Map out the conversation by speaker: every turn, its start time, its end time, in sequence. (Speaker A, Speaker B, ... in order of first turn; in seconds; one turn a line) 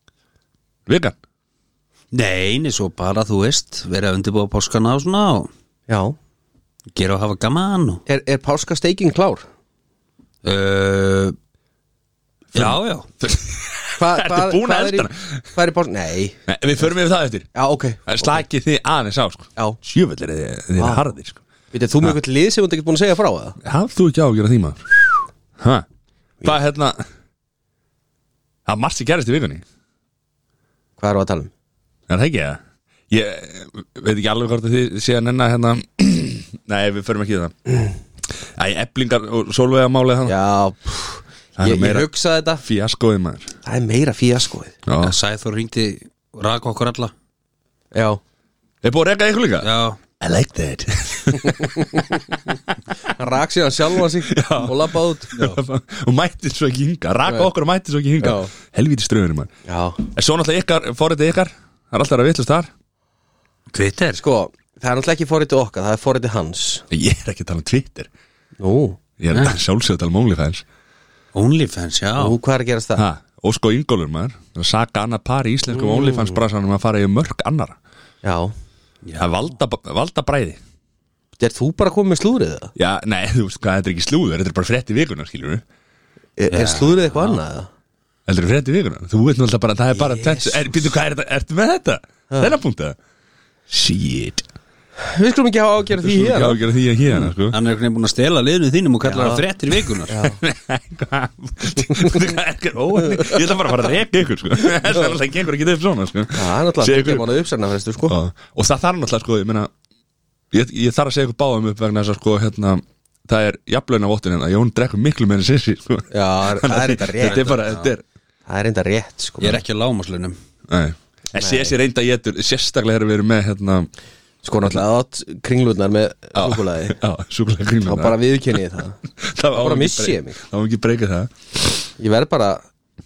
Speaker A: 0.9-1.2
Speaker B: 2.1-5.5
Speaker C: 5.9-6.2
Speaker B: 6.9-8.0
Speaker C: 8.1-9.4
Speaker B: 10.4-11.3
Speaker B: 12.5-13.1
Speaker A: 12.5-15.5
Speaker C: 14.0-16.4
Speaker A: 16.5-17.5
Speaker C: 17.5-18.4
Speaker A: 18.1-21.4
Speaker C: 20.8-21.0
Speaker C: 21.7-23.6
Speaker A: 23.6-25.0
Speaker A: 25.6-25.9
Speaker A: 26.4-27.0
Speaker A: 28.6-29.6
Speaker C: 31.0-31.5
Speaker A: 32.1-37.5
Speaker A: 38.5-40.3
Speaker C: 40.2-42.6
Speaker A: 41.5-42.1
Speaker A: 42.6-43.5
Speaker C: 43.6-44.8
Speaker A: 44.9-45.1
Speaker B: 45.0-47.1
Speaker C: 47.9-48.2
Speaker A: 48.8-52.5
Speaker B: 49.6-50.0
Speaker C: 51.3-52.4
Speaker C: 53.0-55.5
Speaker A: 54.2-59.5
Speaker C: 58.2-58.5
Speaker C: 59.6-60.0
Speaker A: 60.0-62.7
Speaker B: 63.7-64.2
Speaker C: 64.2-66.8
Speaker A: 66.9-68.1
Speaker C: 68.6-69.0
Speaker A: 69.2-70.6
Speaker B: 69.3-69.6
Speaker B: 71.3-72.4
Speaker C: 72.2-73.0
Speaker A: 73.0-77.8
Speaker C: 75.7-76.4
Speaker C: 78.2-78.5
Speaker B: 79.0-79.4
Speaker A: 79.2-80.6
Speaker C: 81.4-82.7
Speaker A: 82.8-85.6
Speaker C: 86.4-87.7
Speaker B: 86.5-87.4
Speaker A: 88.3-93.0
Speaker C: 90.0-90.5
Speaker C: 92.3-92.5
Speaker A: 93.7-94.5
Speaker C: 95.0-96.6
Speaker A: 96.0-97.6
Speaker B: 97.5-100.2
Speaker C: 99.0-99.4
Speaker C: 100.1-100.4
Speaker A: 100.4-107.2
Speaker C: 101.9-102.2
Speaker C: 106.3-108.2
Speaker A: 108.1-109.7
Speaker A: 110.5-118.0
Speaker C: 116.1-117.6
Speaker B: 117.2-117.9
Speaker C: 118.5-119.6
Speaker B: 119.4-120.3
Speaker A: 120.7-123.9
Speaker C: 121.4-121.7
Speaker C: 124.4-127.0
Speaker A: 126.3-128.2
Speaker C: 127.8-129.0
Speaker A: 129.2-131.3
Speaker C: 129.5-130.4
Speaker C: 132.0-132.6